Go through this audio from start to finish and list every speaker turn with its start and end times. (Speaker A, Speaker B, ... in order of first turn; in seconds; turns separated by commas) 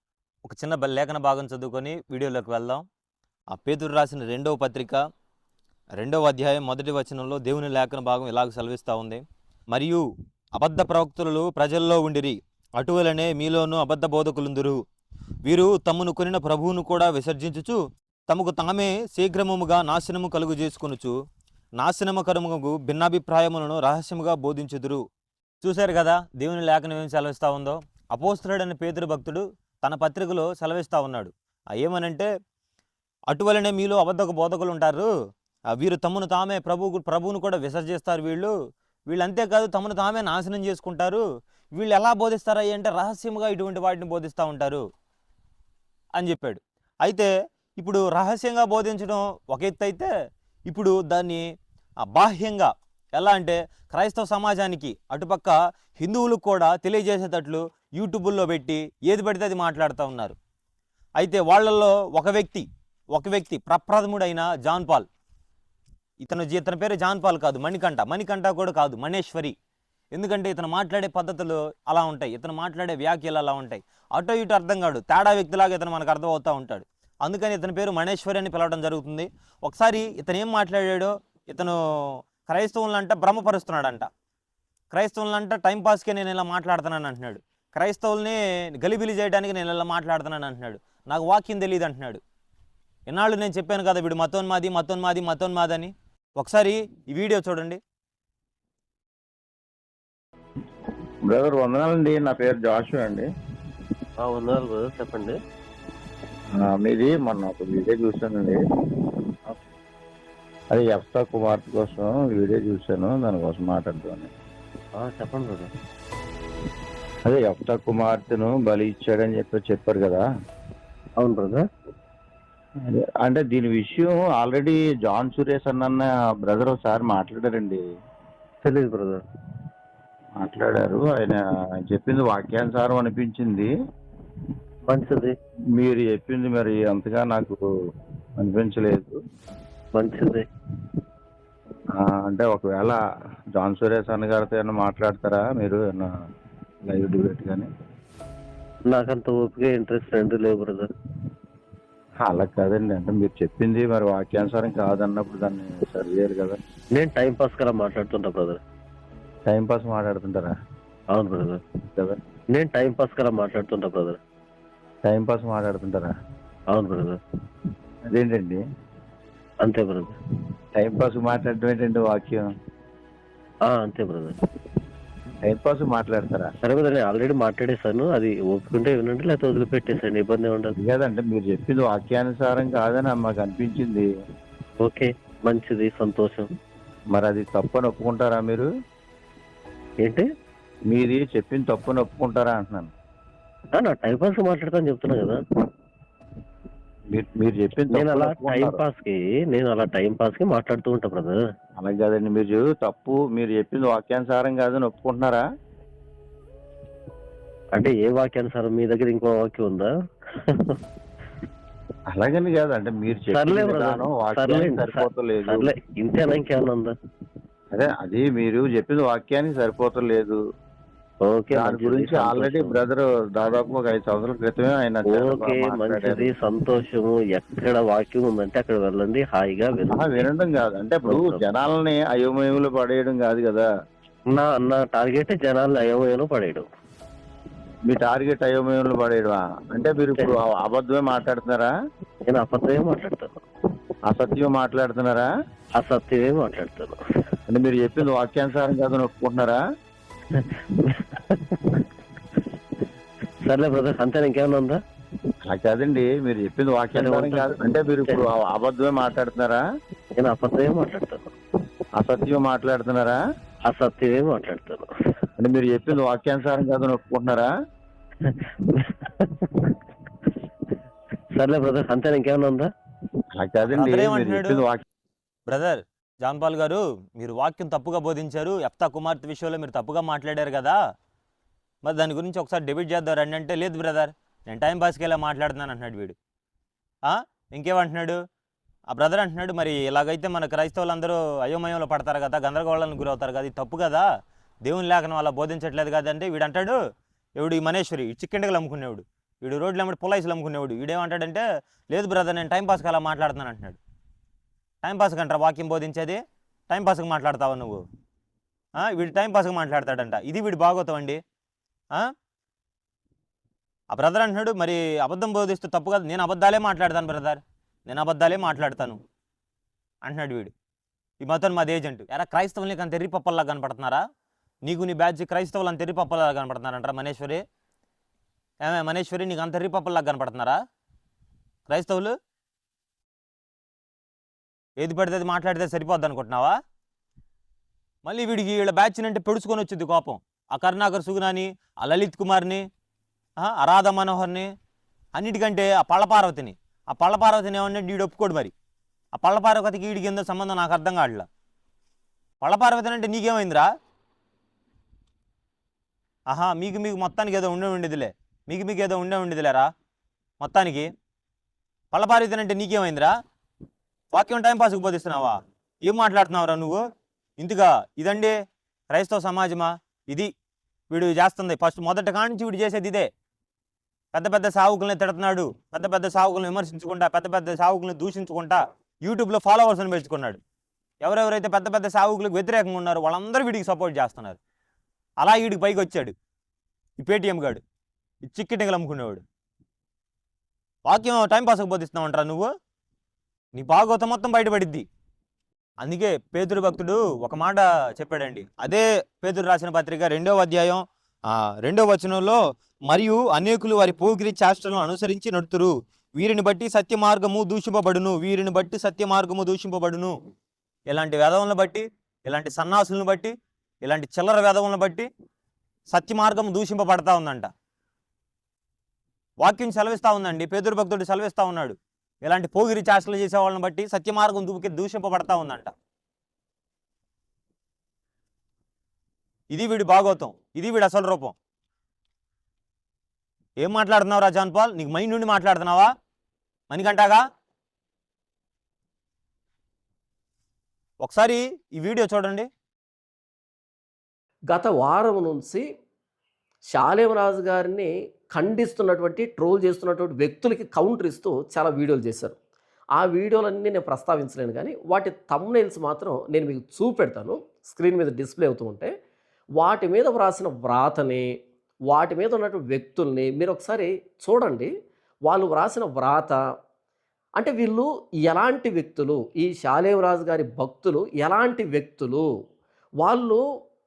Speaker A: 0.4-2.9, Speaker A: 3.5-5.0, Speaker A: 6.0-14.8, Speaker A: 15.4-21.1, Speaker A: 21.8-25.0, Speaker A: 25.6-32.3, Speaker A: 33.3-35.1, Speaker A: 35.7-38.5, Speaker A: 39.1-41.2, Speaker A: 41.7-44.8, Speaker A: 46.1-50.1, Speaker A: 50.7-51.5, Speaker A: 52.1-60.4, Speaker A: 61.2-65.1, Speaker A: 66.2-69.5, Speaker A: 70.1-84.1, Speaker A: 84.9-92.2, Speaker A: 93.1-97.8, Speaker B: 101.3-103.3, Speaker C: 104.2-105.4, Speaker B: 106.6-108.6, Speaker B: 110.7-114.3, Speaker C: 115.0-115.7, Speaker B: 117.2-120.2, Speaker C: 121.2-121.6, Speaker B: 122.8-127.8, Speaker C: 128.6-129.2, Speaker B: 130.4-133.7, Speaker C: 134.9-135.3, Speaker B: 135.8-137.6, Speaker B: 138.4-139.2, Speaker C: 139.9-140.4, Speaker B: 142.0-143.0, Speaker B: 143.6-146.1, Speaker B: 146.8-147.7, Speaker C: 148.9-150.9, Speaker B: 152.2-156.6, Speaker C: 156.9-158.6, Speaker B: 159.5-160.5, Speaker C: 161.1-161.6, Speaker B: 161.9-162.2, Speaker C: 162.5-164.2, Speaker B: 165.1-166.1, Speaker C: 166.7-167.2, Speaker B: 168.1-168.6, Speaker C: 169.6-170.1, Speaker B: 170.8-172.5, Speaker C: 173.7-174.3, Speaker B: 175.4-176.5, Speaker C: 176.6-180.8, Speaker B: 180.8-184.1, Speaker C: 184.8-186.5, Speaker B: 187.1-188.7, Speaker B: 190.9-192.9, Speaker C: 193.7-195.4, Speaker B: 197.1-198.8, Speaker C: 197.9-201.4, Speaker B: 201.8-205.4, Speaker C: 207.8-210.8, Speaker B: 212.1-215.7, Speaker C: 213.3-216.9, Speaker B: 217.7-220.4, Speaker C: 221.2-222.8, Speaker B: 221.5-226.3, Speaker C: 225.1-230.2, Speaker B: 229.9-233.7, Speaker C: 231.1-231.4, Speaker C: 234.3-236.7, Speaker B: 237.8-241.7, Speaker C: 242.3-243.4, Speaker B: 244.1-245.3, Speaker C: 245.8-247.0, Speaker B: 247.5-249.6, Speaker C: 250.3-251.9, Speaker C: 253.4-254.8, Speaker B: 255.5-259.6, Speaker C: 256.9-258.2, Speaker C: 260.2-261.3, Speaker B: 262.0-263.2, Speaker C: 263.7-264.9, Speaker B: 265.4-267.5, Speaker C: 268.2-269.8, Speaker C: 271.4-272.7, Speaker B: 273.4-274.8, Speaker A: 273.7-274.6, Speaker A: 275.5-280.8, Speaker A: 281.8-286.2, Speaker A: 287.1-288.2, Speaker A: 288.9-294.1, Speaker A: 294.6-296.8, Speaker A: 297.4-303.8, Speaker A: 304.8-307.9, Speaker A: 308.8-311.2, Speaker A: 313.9-319.0, Speaker A: 320.0-320.5, Speaker A: 321.2-324.0, Speaker A: 324.6-327.4, Speaker A: 328.6-330.6, Speaker A: 331.7-332.1, Speaker A: 334.8-336.6, Speaker A: 338.0-342.6, Speaker A: 343.4-344.5, Speaker A: 345.1-348.5, Speaker A: 349.1-351.3, Speaker A: 352.4-353.7, Speaker A: 356.3-359.7, Speaker A: 360.4-360.9, Speaker A: 361.9-363.1, Speaker A: 364.1-366.8, Speaker A: 367.4-368.4, Speaker A: 368.9-370.3, Speaker A: 370.9-373.1, Speaker A: 374.1-380.4, Speaker A: 381.0-384.4, Speaker A: 385.2-386.1, Speaker A: 387.0-387.6, Speaker A: 388.2-389.2, Speaker A: 390.9-392.5, Speaker A: 393.6-394.9, Speaker A: 395.8-400.8, Speaker A: 401.6-410.1, Speaker A: 410.9-415.1, Speaker A: 415.9-417.5, Speaker A: 419.4-425.7, Speaker A: 429.5-431.4, Speaker A: 433.6-435.9, Speaker A: 436.7-437.2, Speaker A: 441.0-442.5, Speaker D: 444.5-445.6, Speaker D: 446.7-452.4, Speaker D: 453.0-458.9, Speaker D: 459.6-461.3, Speaker D: 461.9-464.7, Speaker D: 465.3-466.4, Speaker D: 467.4-472.3, Speaker D: 473.0-473.4